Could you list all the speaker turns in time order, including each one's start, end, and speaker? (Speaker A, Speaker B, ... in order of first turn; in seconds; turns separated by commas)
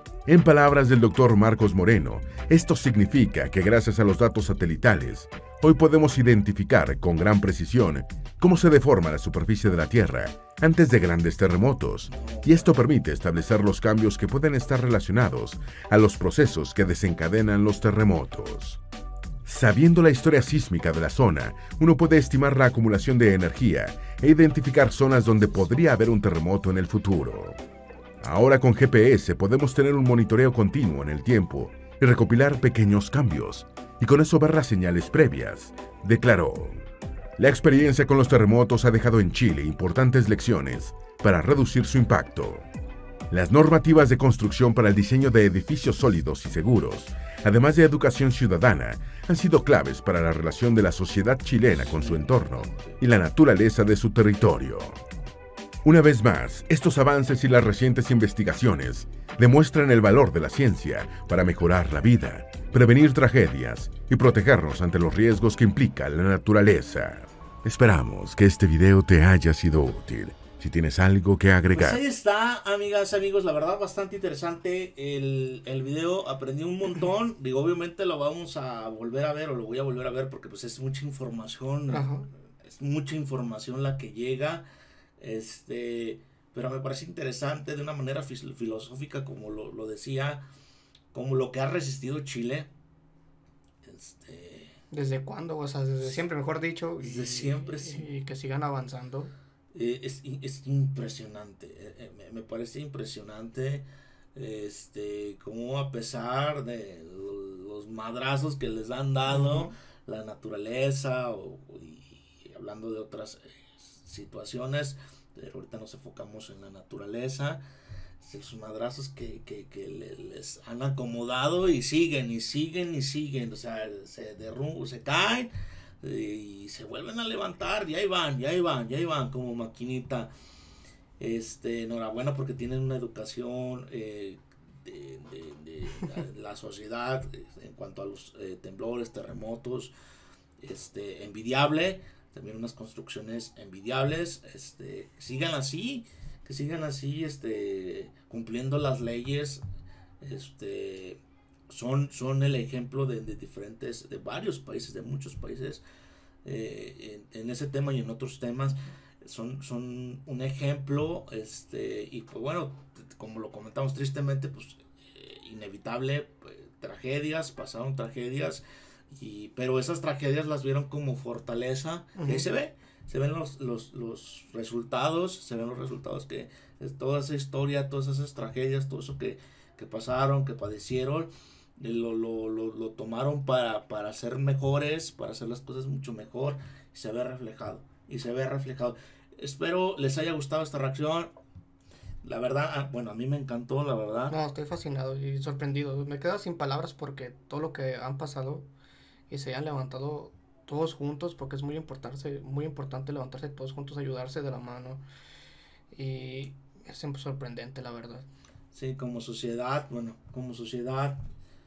Speaker A: 0.3-18.8, Speaker B: 12.1-12.8, Speaker A: 19.4-27.6, Speaker A: 28.2-36.8, Speaker A: 37.4-42.7, Speaker A: 43.3-55.0, Speaker B: 51.8-53.0, Speaker A: 55.8-72.0, Speaker B: 71.7-82.1, Speaker C: 81.9-82.3, Speaker B: 82.6-84.7, Speaker B: 85.2-90.5, Speaker B: 91.1-92.7, Speaker B: 93.8-94.8, Speaker C: 94.9-99.3, Speaker B: 97.0-98.1, Speaker B: 99.7-117.6, Speaker C: 109.3-109.7, Speaker B: 118.2-130.3, Speaker B: 131.2-139.9, Speaker B: 140.6-149.6, Speaker B: 150.2-155.8, Speaker B: 156.4-191.3, Speaker C: 172.2-172.5, Speaker B: 192.2-194.4, Speaker C: 194.3-198.7, Speaker C: 199.3-205.0, Speaker C: 205.9-208.2, Speaker B: 208.7-211.2